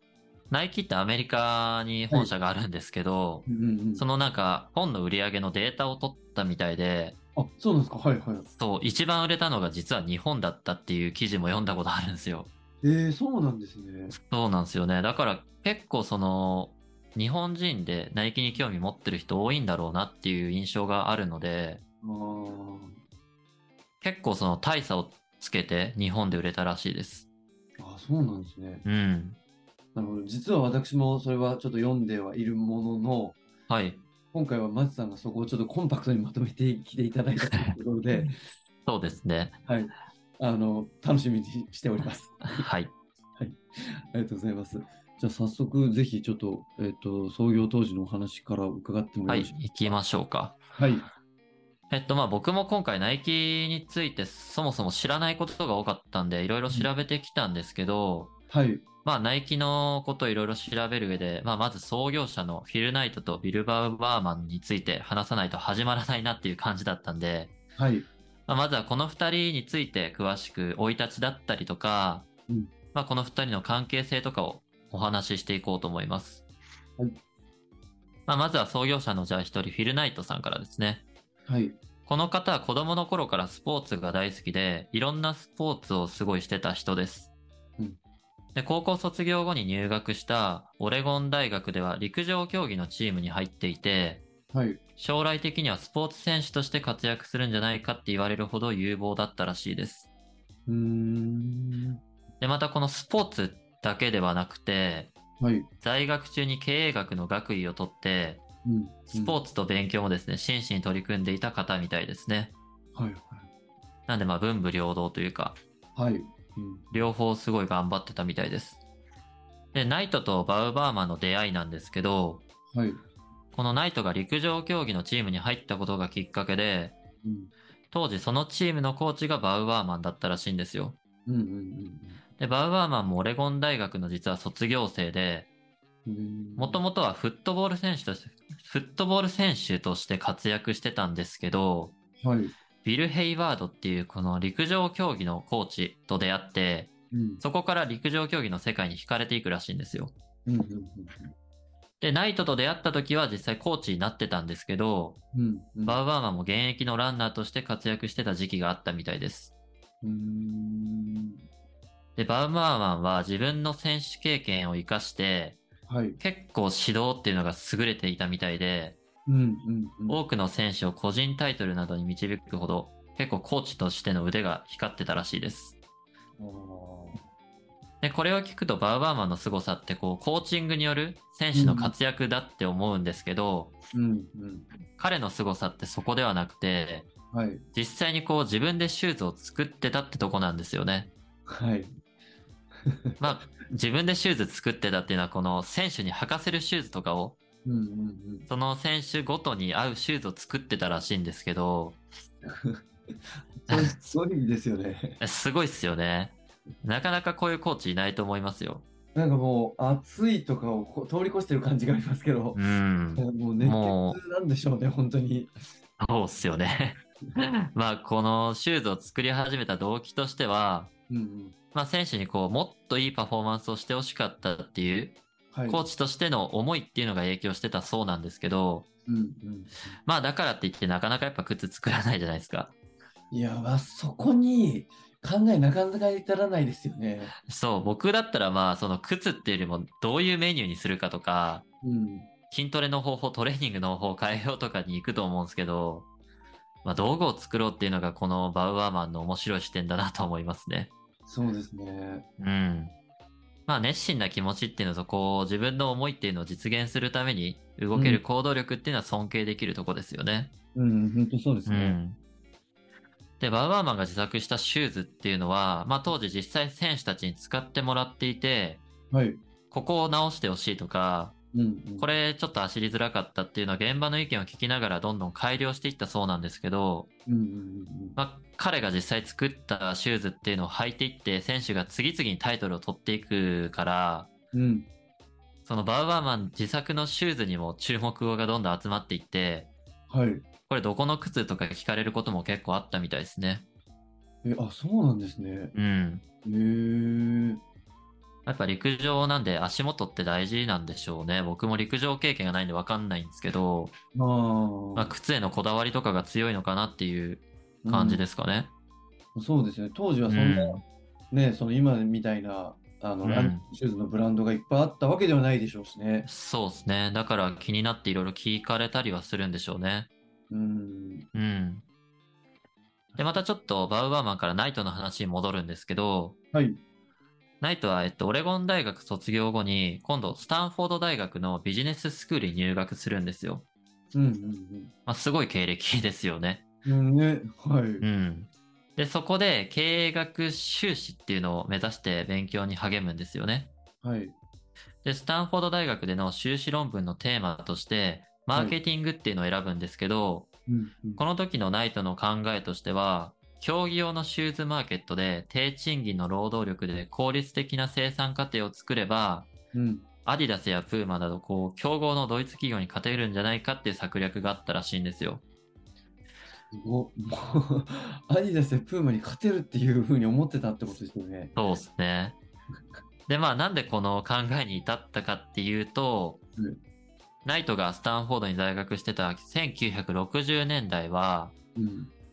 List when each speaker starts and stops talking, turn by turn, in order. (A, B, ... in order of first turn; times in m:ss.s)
0:00.5-0:03.4 A
0:03.4-0:04.1 B
0:04.0-0:07.1 A
0:07.4-0:08.5 B
0:08.6-0:12.5 A
0:12.8-0:14.2 B
0:14.1-0:21.8 A
0:22.0-0:23.0 B
0:24.0-0:27.2 A
0:27.8-0:28.8 B
0:28.8-0:29.4 A
0:29.9-0:33.4 B
0:33.7-0:34.0 A
0:34.3-0:38.4 B
0:37.5-0:37.8 A
0:38.9-0:39.5 A
0:39.7-0:42.7 B
0:42.5-0:42.9 A
0:43.4-0:50.0 B
0:49.3-0:50.6 A
0:50.7-0:51.1 B
0:51.9-0:58.3 A
0:58.5-0:58.8 B
0:59.0-1:07.5 A
1:07.8-1:08.1 B
1:08.5-1:12.2 A
1:12.9-1:16.4 A
1:18.3-1:21.0 A
1:21.5-1:21.8 B
1:22.1-1:27.3 A
1:28.5-1:34.2 A
1:34.5-1:34.8 B
1:35.0-1:40.1 A
1:40.7-1:42.0 B
1:42.4-1:45.1 A
1:45.4-1:45.7 B
1:45.8-1:48.4 A
1:48.6-1:49.4 B
1:49.1-1:52.5 A
1:52.9-1:53.5 B
1:54.1-1:55.6 A
1:55.9-1:56.8 B
1:56.9-1:58.8 A
1:59.7-2:02.4 A
2:02.7-2:03.0 B
2:03.6-2:06.9 A
2:07.2-2:07.5 B
2:07.9-2:11.0 A
2:11.2-2:12.2 B
2:12.4-2:15.4 A
2:16.1-2:16.8 B
2:16.6-2:21.9 A
2:22.2-2:22.5 B
2:22.8-2:26.9 A
2:27.1-2:27.4 B
2:27.4-2:30.1 A
2:30.4-2:31.3 B
2:32.0-2:35.1 A
2:35.3-2:36.0 B
2:35.9-2:39.5 A
2:40.0-2:41.4 B
2:42.2-2:45.6 A
2:45.9-2:46.2 B
2:46.2-2:48.9 A
2:49.2-2:50.2 B
2:50.1-2:55.7 A
2:56.4-2:57.2 B
2:58.0-3:03.7 A
3:01.5-3:01.9 B
3:03.9-3:04.7 B
3:05.0-3:07.1 A
3:07.3-3:07.6 B
3:07.8-3:11.1 A
3:11.5-3:11.9 B
3:12.8-3:13.5 B
3:13.2-3:17.3 A
3:17.6-3:18.5 B
3:18.5-3:22.0 A
3:22.4-3:22.8 B
3:23.6-3:25.2 B
3:23.7-3:24.0 A
3:25.2-3:28.8 A
3:29.1-3:32.6 B
3:32.6-3:34.2 A
3:33.2-3:35.5 B
3:36.0-3:40.9 A
3:41.1-3:41.6 B
3:41.7-3:45.1 A
3:45.5-3:45.9 B
3:45.7-3:48.8 A
3:49.1-3:50.0 B
3:50.1-3:52.7 A
3:53.3-3:57.4 B
3:57.4-4:01.6 A
4:01.8-4:02.3 B
4:02.5-4:06.0 A
4:06.8-4:10.9 A
4:11.2-4:12.2 B
4:12.4-4:12.9 A
4:13.7-4:20.5 A
4:17.9-4:18.2 B
4:20.8-4:22.0 B
4:21.7-4:22.2 A
4:23.4-4:28.8 A
4:29.1-4:29.4 B
4:29.7-4:31.3 A
4:31.5-4:32.1 B
4:32.0-4:37.1 A
4:37.2-4:38.2 B
4:38.2-4:44.3 A
4:44.5-4:44.9 B
4:45.6-4:49.7 A
4:50.1-4:50.4 B
4:50.7-4:53.6 A
4:54.4-4:55.7 B
4:55.8-4:56.2 A
4:56.4-4:57.6 B
4:58.4-5:03.9 A
5:04.1-5:05.1 B
5:05.0-5:08.7 A
5:07.8-5:08.2 B
5:09.3-5:16.3 B
5:10.3-5:10.8 A
5:13.2-5:13.6 A
5:16.2-5:20.1 A
5:20.5-5:21.2 B
5:21.3-5:21.8 A
5:23.2-5:26.3 A
5:26.5-5:26.8 B
5:27.6-5:33.6 A
5:34.1-5:34.9 B
5:35.1-5:36.6 A
5:36.8-5:38.1 B
5:38.0-5:43.7 A
5:44.0-5:44.4 B
5:45.0-5:50.5 A
5:48.5-5:48.8 B
5:50.7-5:51.2 B
5:51.2-5:59.5 A
5:59.7-6:00.1 B
6:00.2-6:05.4 A
6:06.7-6:11.6 B
6:11.6-6:12.3 A
6:13.3-6:16.4 A
6:17.4-6:21.5 A
6:21.8-6:22.1 B